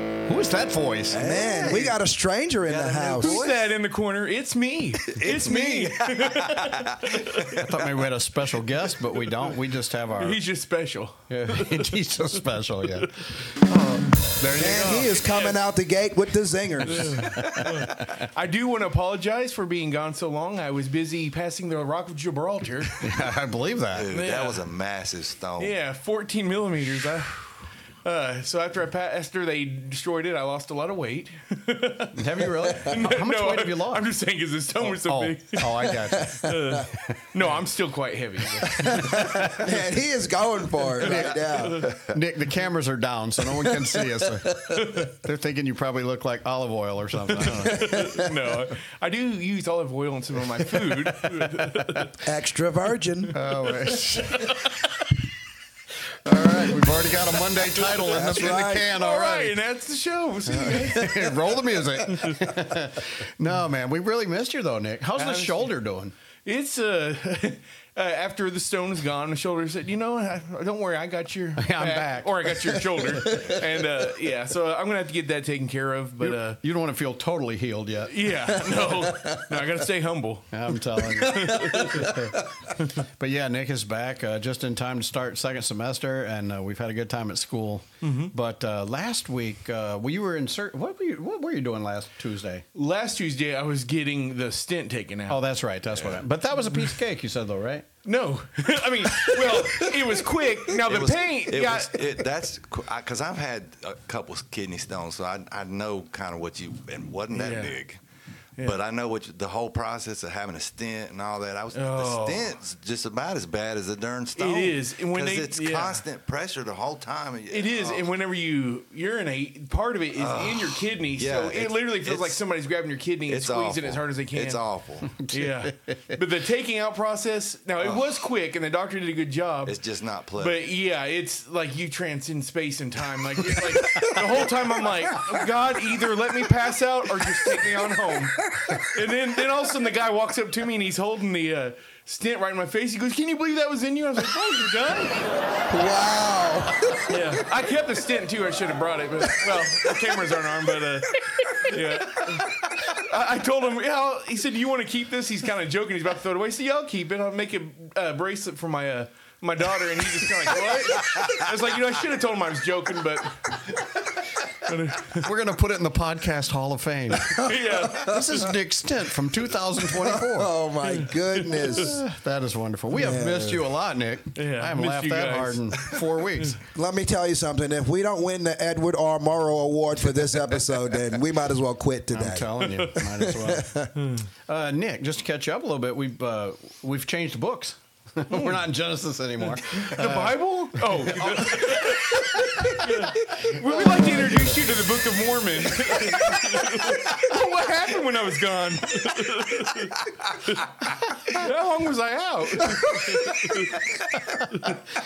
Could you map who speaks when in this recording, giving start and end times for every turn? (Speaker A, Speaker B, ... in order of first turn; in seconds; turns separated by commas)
Speaker A: 0.2-1.2, Speaker B: 1.1-2.0, Speaker C: 1.2-3.4, Speaker B: 2.6-3.7, Speaker D: 3.2-7.6, Speaker B: 5.1-7.6, Speaker A: 7.6-10.4, Speaker D: 10.1-11.8, Speaker A: 11.3-13.2, Speaker A: 14.4-15.1, Speaker C: 14.6-17.9, Speaker D: 15.2-15.6, Speaker A: 16.9-17.9, Speaker D: 16.9-23.0, Speaker A: 23.0-24.1, Speaker B: 23.9-25.7, Speaker D: 24.1-24.6, Speaker D: 25.6-39.1, Speaker A: 32.1-34.1, Speaker A: 34.8-36.5, Speaker C: 36.1-36.8, Speaker C: 38.7-42.1, Speaker A: 39.0-39.6, Speaker A: 41.0-47.9, Speaker C: 43.6-44.9, Speaker D: 47.3-52.2, Speaker C: 47.7-48.3, Speaker C: 52.2-53.4, Speaker A: 53.3-54.7, Speaker D: 53.9-54.5, Speaker A: 56.2-59.5, Speaker C: 58.0-58.9, Speaker D: 58.2-61.4, Speaker A: 60.5-66.1, Speaker D: 65.1-65.7, Speaker D: 66.4-76.6, Speaker A: 71.6-72.8, Speaker A: 76.2-78.6, Speaker D: 78.0-80.5, Speaker C: 78.7-79.7, Speaker A: 80.5-92.6, Speaker C: 81.1-82.4, Speaker D: 81.2-82.1, Speaker D: 88.0-88.3, Speaker D: 92.7-96.2, Speaker A: 95.3-97.8, Speaker D: 98.0-102.0, Speaker B: 100.8-108.0, Speaker D: 107.3-107.8, Speaker B: 108.6-118.1, Speaker D: 111.7-112.6, Speaker D: 114.4-116.0, Speaker D: 117.5-124.6, Speaker B: 120.2-122.4, Speaker B: 123.2-125.2, Speaker A: 125.2-125.7, Speaker D: 125.2-129.7, Speaker B: 127.8-128.2, Speaker B: 129.6-130.7, Speaker D: 130.4-145.2, Speaker C: 145.7-147.3, Speaker D: 147.1-163.9, Speaker C: 149.4-149.7, Speaker D: 164.4-165.3, Speaker A: 165.2-170.5, Speaker D: 167.3-168.2, Speaker C: 169.9-172.0, Speaker A: 171.5-176.6, Speaker C: 172.9-173.7, Speaker D: 174.3-175.8, Speaker C: 176.7-182.5, Speaker A: 182.1-183.9, Speaker D: 182.6-183.0, Speaker C: 183.1-183.9, Speaker D: 183.9-184.2, Speaker A: 184.5-192.7, Speaker D: 188.3-188.6, Speaker D: 189.4-204.7, Speaker A: 193.8-194.4, Speaker C: 202.7-203.9